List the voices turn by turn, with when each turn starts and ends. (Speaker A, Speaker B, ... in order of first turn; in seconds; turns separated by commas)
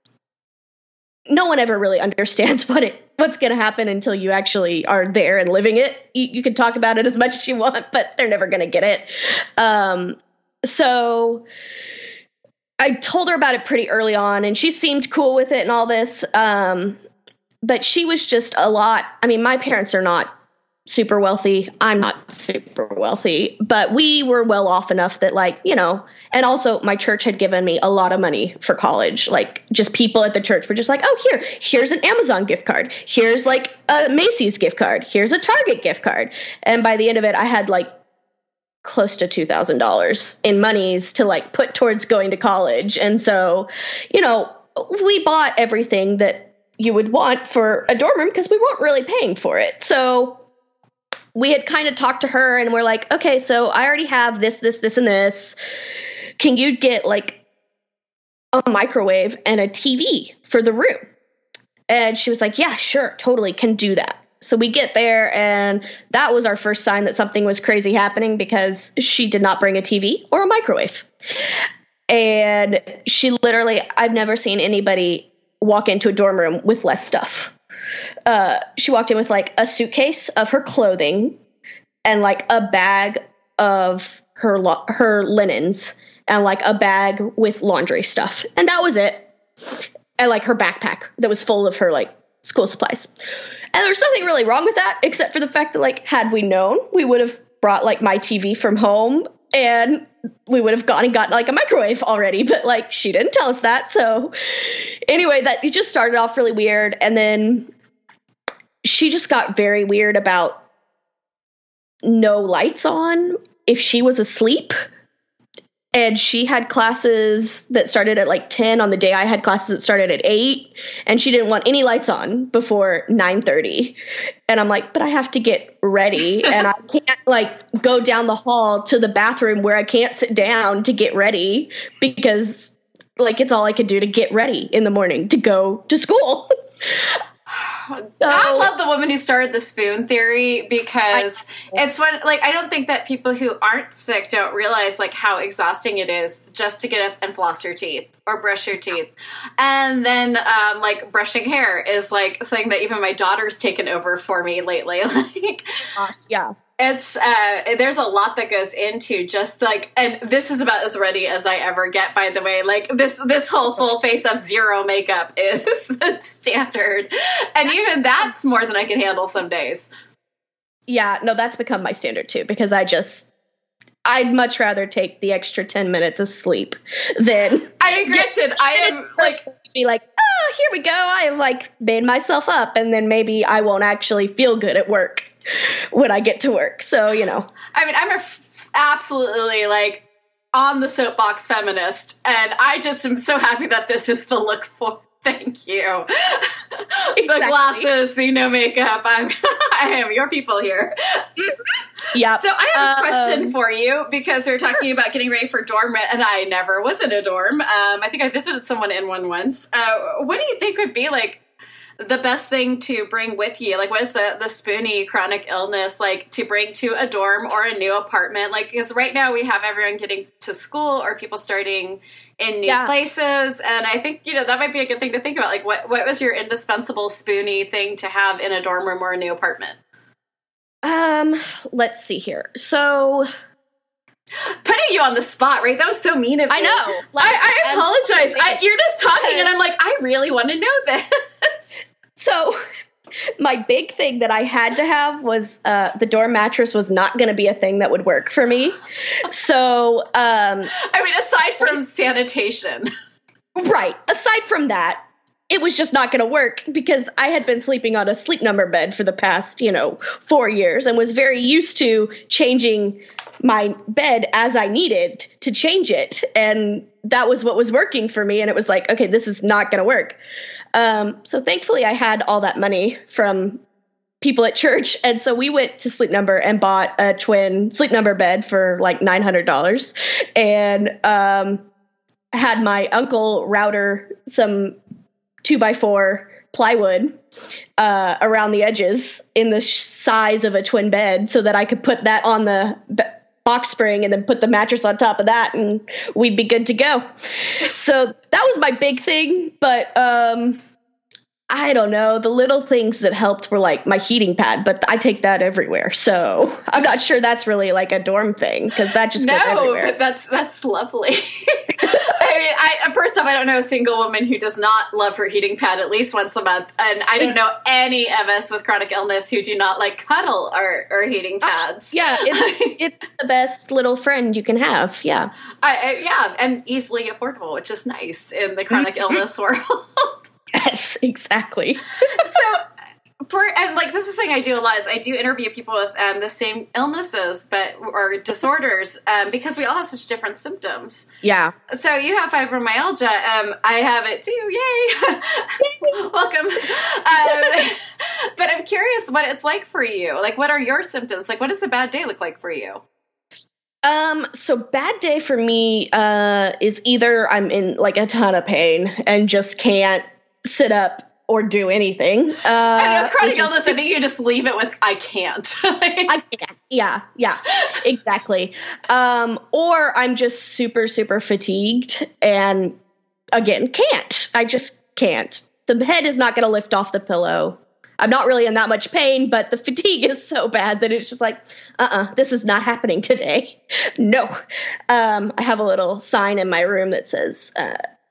Speaker A: 1.3-11.4, Speaker A: 12.8-17.0, Speaker A: 17.6-20.3, Speaker A: 20.9-37.9, Speaker A: 38.8-50.4, Speaker A: 51.3-55.5, Speaker A: 56.4-57.4, Speaker A: 58.5-61.1, Speaker A: 61.9-71.1, Speaker A: 72.1-77.5, Speaker A: 78.3-81.4, Speaker A: 82.0-93.1, Speaker A: 93.7-107.7, Speaker A: 108.8-110.6, Speaker A: 112.0-114.7, Speaker A: 115.9-124.0, Speaker A: 124.5-137.2, Speaker B: 137.5-155.9, Speaker A: 138.0-138.7, Speaker A: 141.1-141.8, Speaker A: 155.9-156.5, Speaker B: 156.8-169.9, Speaker A: 170.9-173.3, Speaker A: 174.0-187.5, Speaker B: 177.8-179.5, Speaker B: 187.7-201.2, Speaker A: 197.2-197.9, Speaker A: 202.1-203.5, Speaker B: 202.3-211.4, Speaker B: 212.0-229.8, Speaker A: 222.7-222.9, Speaker A: 230.8-233.3, Speaker B: 234.6-241.6, Speaker A: 236.5-239.5, Speaker A: 242.2-242.6, Speaker A: 243.4-250.7, Speaker B: 250.8-252.9, Speaker A: 253.6-270.2, Speaker A: 270.7-273.6, Speaker A: 274.2-281.6, Speaker A: 282.3-284.8, Speaker A: 285.4-287.2, Speaker A: 287.8-300.6, Speaker A: 301.5-309.9, Speaker B: 309.1-322.8, Speaker A: 321.9-325.3, Speaker B: 325.6-330.3, Speaker A: 328.7-329.1, Speaker A: 330.5-332.4, Speaker B: 332.1-332.6, Speaker B: 333.3-341.1, Speaker A: 341.2-341.5, Speaker B: 341.7-352.8, Speaker A: 345.6-346.0, Speaker A: 347.3-347.6, Speaker A: 353.8-363.8, Speaker B: 362.7-366.1, Speaker A: 366.1-372.8, Speaker A: 373.3-384.3, Speaker A: 384.9-387.8